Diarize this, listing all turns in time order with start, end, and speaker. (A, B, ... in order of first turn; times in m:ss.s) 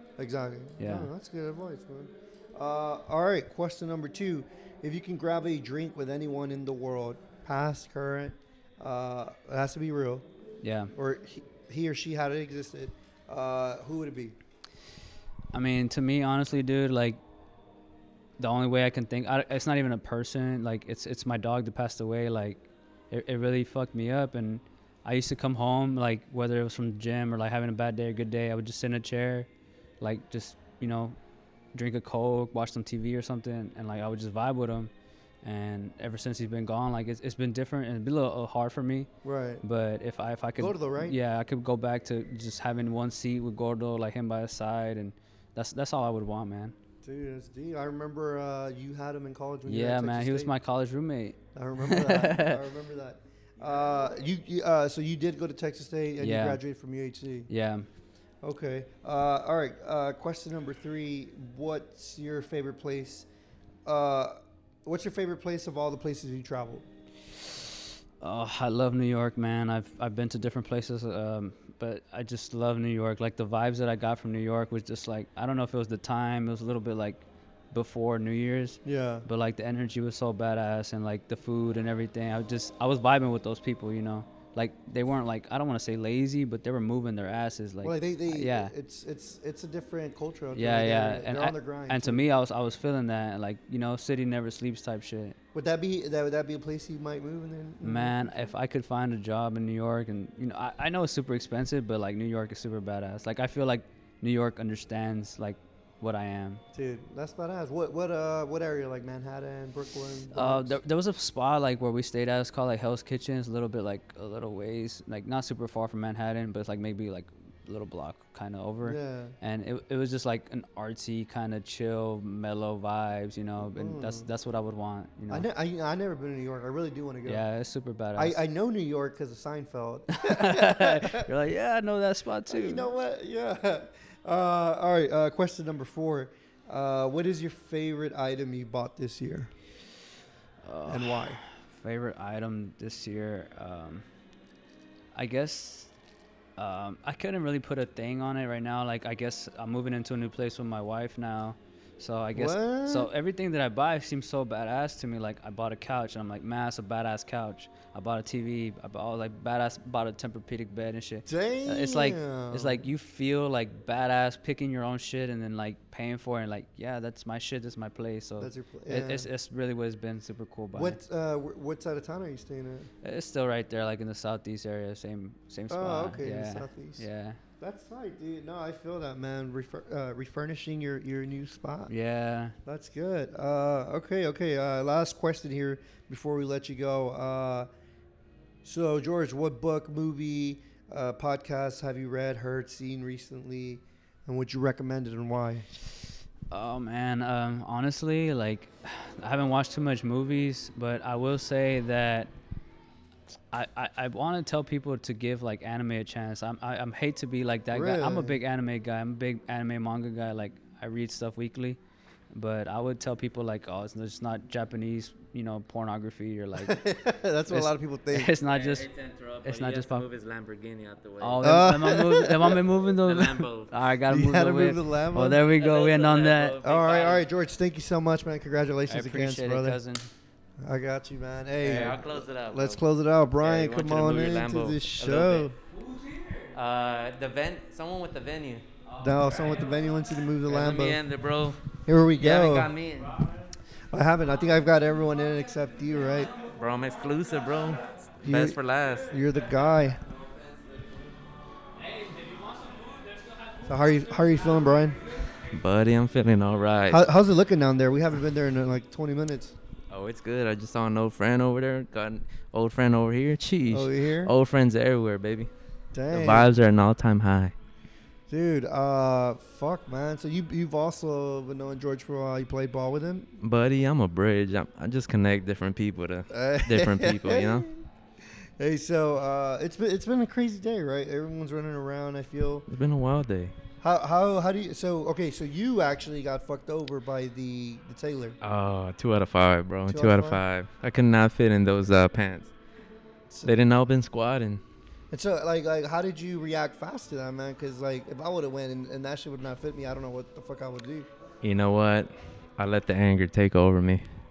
0:00.2-0:10.2 A
0:00.8-0:01.1 B
0:10.6-0:10.9 B
0:11.0-0:14.4 A
0:15.5-0:17.2 B
0:18.4-0:29.5 B
0:30.0-0:31.2 B
0:31.7-0:34.9 B
0:35.4-0:39.1 B
0:39.2-0:39.6 A
0:39.6-0:46.8 B
0:40.6-0:41.2 A
0:47.0-0:50.5 A
0:49.7-0:52.6 B
0:51.6-0:57.5 A
0:56.2-0:56.6 B
0:57.5-0:57.9 B
0:58.4-1:03.3 A
1:03.9-1:06.9 A
1:08.2-1:28.7 B
1:18.8-1:19.2 A
1:27.8-1:32.2 A
1:30.5-1:35.4 B
1:35.5-1:38.5 A
1:37.8-1:46.6 B
1:46.7-1:50.8 A
1:50.3-2:05.5 B
1:58.8-1:59.4 A
2:03.6-2:04.3 A
2:05.3-2:07.4 A
2:07.3-2:08.4 B
2:08.2-2:11.3 A
2:10.2-2:12.9 B
2:12.5-2:19.5 A
2:20.6-2:24.0 B
2:20.9-2:21.4 A
2:25.2-2:25.9 B
2:26.6-2:51.0 B
2:32.3-2:33.1 A
2:41.3-2:42.8 A
2:48.4-2:49.3 A
2:50.7-2:52.9 A
2:53.0-2:57.4 B
2:55.7-2:57.1 A
2:57.6-3:01.9 A
3:01.9-3:02.6 B
3:02.7-3:07.7 A
3:08.6-3:15.7 A
3:16.5-3:22.3 B
3:23.5-3:31.8 B
3:27.7-3:28.4 A
3:32.3-3:36.8 B
3:36.6-3:38.3 A
3:37.5-3:38.9 B
3:38.4-3:41.6 C
3:39.4-3:40.1 B
3:41.2-3:46.6 B
3:41.4-3:42.6 A
3:43.1-3:43.7 C
3:44.1-3:45.4 A
3:45.4-3:47.2 C
3:46.6-3:49.8 A
3:48.9-3:50.1 B
3:50.6-3:55.6 A
3:51.6-3:52.8 C
3:53.4-3:55.5 C
3:55.9-3:56.3 B
3:56.5-3:58.6 C
3:59.0-4:01.0 A
4:00.5-4:01.6 C
4:01.8-4:02.7 A
4:02.2-4:03.3 C
4:03.9-4:06.3 A
4:06.4-4:09.1 C
4:08.2-4:10.0 A
4:10.1-4:10.8 C
4:11.9-4:13.5 B
4:13.7-4:15.0 A
4:15.5-4:17.0 C
4:16.9-4:19.6 A
4:19.9-4:25.5 C
4:23.7-4:24.3 A
4:25.9-4:26.5 A
4:26.1-4:27.5 C
4:28.3-4:33.3 A
4:33.4-4:37.7 C
4:36.3-4:37.8 A
4:38.6-4:42.7 A
4:42.7-4:43.5 C
4:43.8-4:48.4 A
4:48.4-4:52.5 C
4:49.9-4:50.4 A
4:53.4-4:54.6 C
4:55.1-5:01.1 A
5:01.4-5:04.1 C